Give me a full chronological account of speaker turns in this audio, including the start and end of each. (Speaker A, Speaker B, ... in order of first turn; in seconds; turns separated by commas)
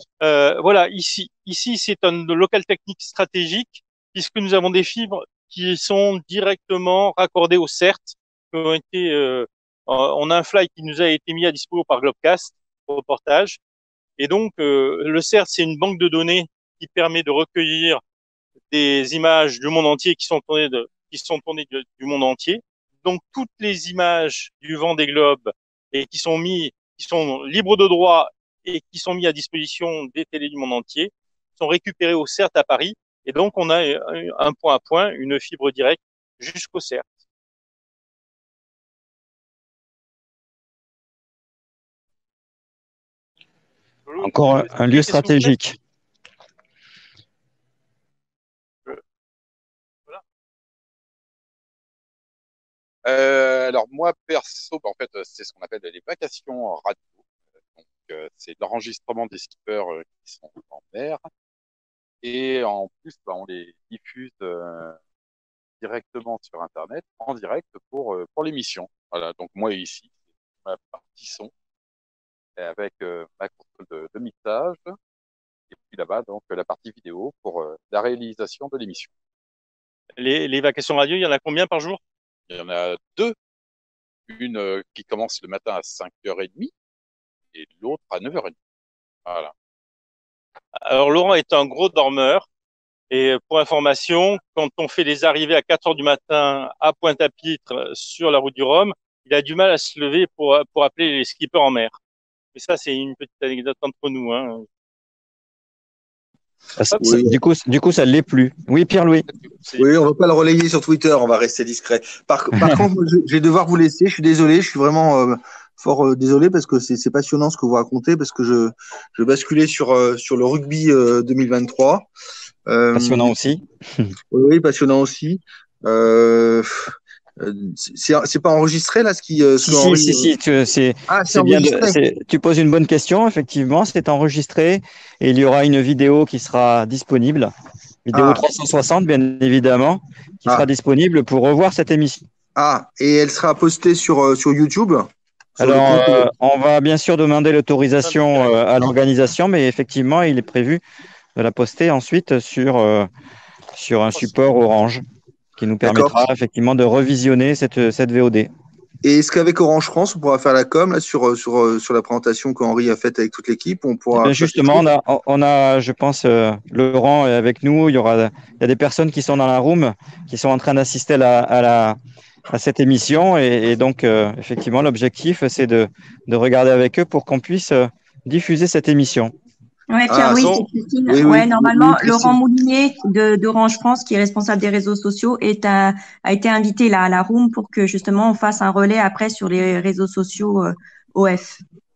Speaker A: 0.2-13.6, Speaker A: 14.2-18.0, Speaker A: 18.7-37.1, Speaker A: 44.1-45.5, Speaker B: 44.2-45.8, Speaker C: 53.0-57.1, Speaker C: 57.8-61.3, Speaker C: 62.2-65.0, Speaker C: 65.8-70.1, Speaker C: 70.6-71.5, Speaker C: 72.6-74.9, Speaker C: 75.7-79.1, Speaker A: 80.2-82.0, Speaker C: 82.5-83.4, Speaker C: 84.3-86.7, Speaker C: 87.5-88.5, Speaker C: 89.3-89.5, Speaker A: 90.8-92.5, Speaker A: 93.1-102.0, Speaker A: 102.5-104.7, Speaker B: 106.8-109.3, Speaker D: 107.0-107.3, Speaker A: 109.4-109.8, Speaker D: 109.8-122.1, Speaker D: 122.7-123.3, Speaker B: 122.9-124.1, Speaker D: 124.3-130.3, Speaker B: 129.6-137.5, Speaker D: 131.1-132.0, Speaker B: 138.1-142.3, Speaker D: 138.1-138.4, Speaker D: 142.6-146.3, Speaker B: 145.6-150.8, Speaker A: 148.0-148.6, Speaker B: 151.4-153.1, Speaker B: 153.7-155.0, Speaker B: 155.6-158.5, Speaker D: 155.8-156.2, Speaker D: 159.0-164.9, Speaker B: 164.2-172.0, Speaker B: 172.5-179.3, Speaker E: 179.9-191.6, Speaker D: 180.1-182.4